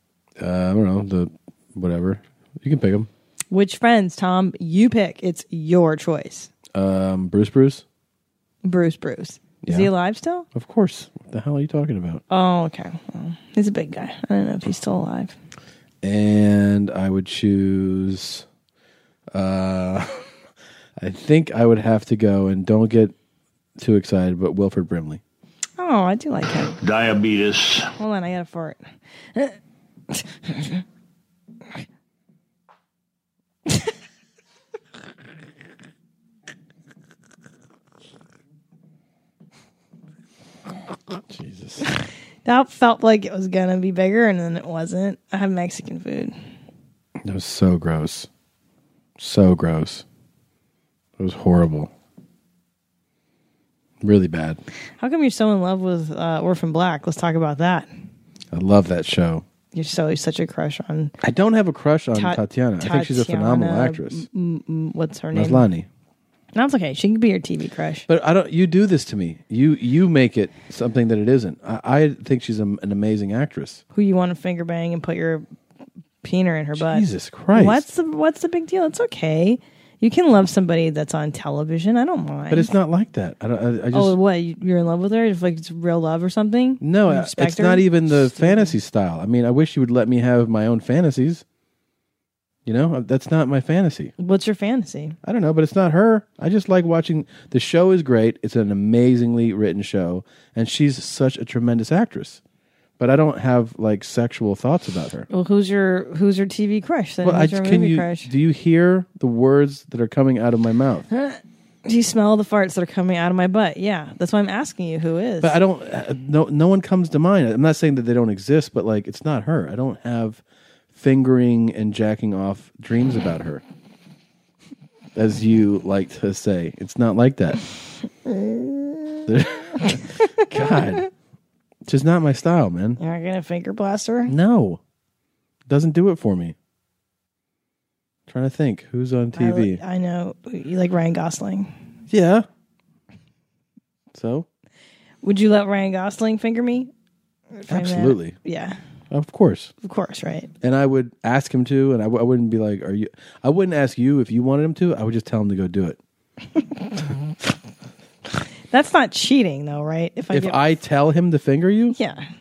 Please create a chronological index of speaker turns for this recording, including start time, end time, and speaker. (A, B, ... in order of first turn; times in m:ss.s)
0:00.4-0:03.1 A
0:03.5-0:06.5 B
0:06.7-0:07.8 A
0:08.6-0:10.5 B
0:09.6-0:09.9 A
0:10.5-0:12.2 A
0:12.3-0:15.4 B
0:16.0-0:18.5 A
0:19.3-0:20.2 A
0:21.0-0:23.1 A
0:23.8-0:25.2 A
0:25.8-0:26.8 B
0:28.0-0:28.8 B
0:30.1-0:30.8 B
0:41.3-0:41.8 A
0:42.4-0:46.4 B
0:47.2-0:48.3 A
0:49.2-0:50.0 A
0:51.2-0:51.9 A
0:54.0-0:54.6 A
0:55.0-0:57.9 B
0:58.5-0:59.4 A
0:59.7-1:01.1 B
1:01.2-1:04.3 A
1:02.2-1:05.7 B
1:05.3-1:05.9 A
1:06.6-1:08.1 B
1:08.1-1:13.8 A
1:13.9-1:15.4 B
1:16.2-1:22.7 B
1:16.8-1:17.9 A
1:22.5-1:24.2 A
1:23.9-1:28.8 B
1:26.8-1:31.4 A
1:32.7-1:34.1 A
1:34.2-1:35.2 B
1:35.2-1:42.4 A
1:43.0-1:45.3 A
1:45.3-1:48.3 B
1:47.2-1:51.1 A
1:51.1-1:55.6 B
1:55.4-2:00.4 A
2:00.9-2:03.6 A
2:05.2-2:07.6 A
2:08.3-2:09.2 B
2:09.3-2:11.1 A
2:11.9-2:13.0 A
2:13.0-2:14.3 B
2:14.3-2:14.8 A
2:15.7-2:16.6 A
2:18.3-2:19.8 A
2:19.4-2:21.7 B
2:22.1-2:22.5 A
2:24.1-2:24.5 A
2:25.2-2:26.9 B
2:27.6-2:28.8 B
2:27.7-2:28.4 A
2:29.1-2:29.7 A
2:29.8-2:30.5 B
2:30.6-2:36.0 A
2:38.7-2:40.8 B
2:40.3-2:42.0 A
2:41.9-2:42.3 B